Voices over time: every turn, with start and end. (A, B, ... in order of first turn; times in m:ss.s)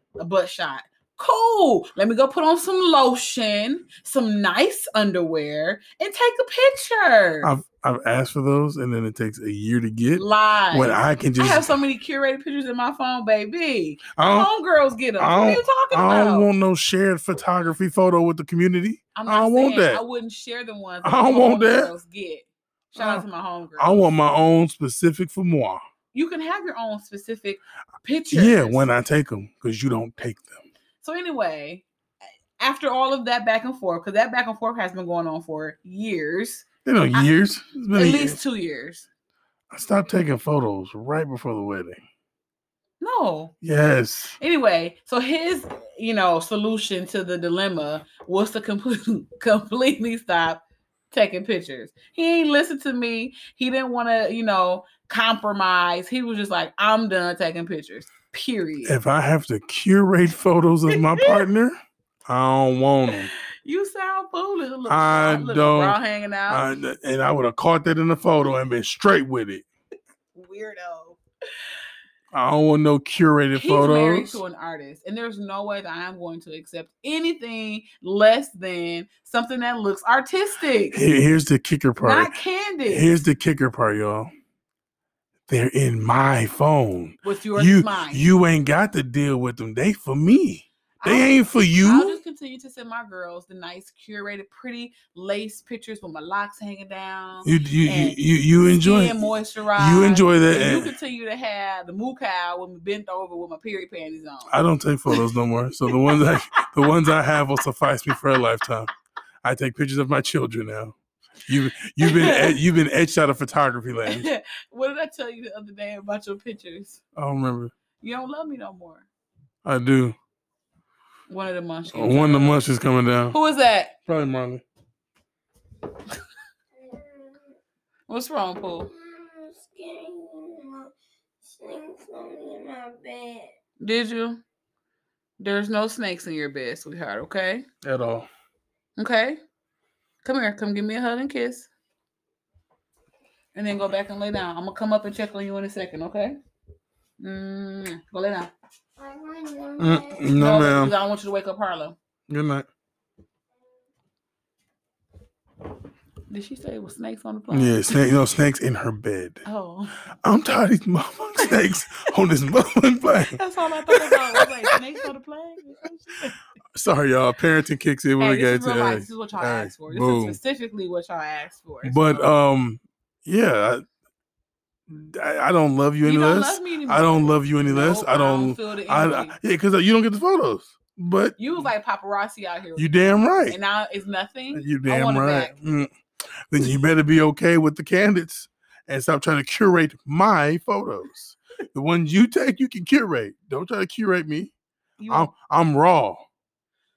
0:00.2-0:07.5 A
0:07.4-0:11.7 B
0:10.1-0:16.5 A
0:14.2-0:14.5 B
0:15.2-0:20.0 B
0:19.1-0:24.0 A
0:21.0-0:21.9 B
0:22.9-0:23.2 B
0:23.8-0:25.8 B
0:26.1-0:28.9 A
0:28.3-0:30.6 B
0:31.0-0:31.8 A
0:32.6-0:37.3 A
0:36.8-0:38.4 B
0:37.9-0:39.1 A
0:39.7-0:42.0 B
0:43.0-0:43.5 A
0:43.6-0:44.4 B
0:44.4-0:59.0 A
0:58.8-1:03.3 B
1:00.9-1:01.4 A
1:03.1-1:06.7 A
1:04.9-1:09.6 B
1:10.3-1:11.2 A
1:12.3-1:14.4 B
1:13.5-1:21.0 A
1:20.9-1:22.4 B
1:22.0-1:23.1 A
1:22.9-1:24.3 B
1:25.5-1:32.2 B
1:27.2-1:28.2 A
1:31.0-1:38.2 A
1:37.4-1:39.2 B
1:38.8-1:44.6 A
1:39.8-1:40.9 B
1:44.5-1:48.9 B
1:45.9-1:47.4 A
1:49.4-1:50.9 B
1:51.4-1:54.3 B
1:52.0-1:52.6 A
1:54.0-1:57.0 A
1:57.2-1:57.7 B
1:58.0-1:59.1 A
1:59.6-2:00.2 B
2:01.3-2:02.6 A
2:01.9-2:03.4 B
2:03.3-2:04.0 A
2:04.1-2:04.6 B
2:06.8-2:07.1 C
2:08.1-2:08.9 A
2:08.9-2:10.9 C
2:11.4-2:13.5 C
2:13.8-2:14.4 A
2:15.4-2:17.6 A
2:17.8-2:18.3 B
2:19.0-2:19.4 A
2:20.2-2:21.7 A
2:23.5-2:26.4 A
2:27.2-2:28.5 A
2:29.0-2:30.2 C
2:29.8-2:30.9 B
2:30.3-2:32.0 A
2:32.3-2:32.6 B
2:36.3-2:38.0 A
2:37.5-2:39.4 B
2:39.4-2:40.0 A
2:40.2-2:44.8 B
2:43.4-2:46.4 A
2:46.7-2:50.4 B
2:48.2-2:52.3 A
2:51.8-2:53.8 B
2:54.9-3:01.4 B
2:56.0-2:59.4 A
3:01.4-3:05.5 A
3:02.8-3:03.6 B
3:04.5-3:05.9 B
3:06.5-3:14.5 B
3:15.0-3:15.3 A
3:15.1-3:16.2 B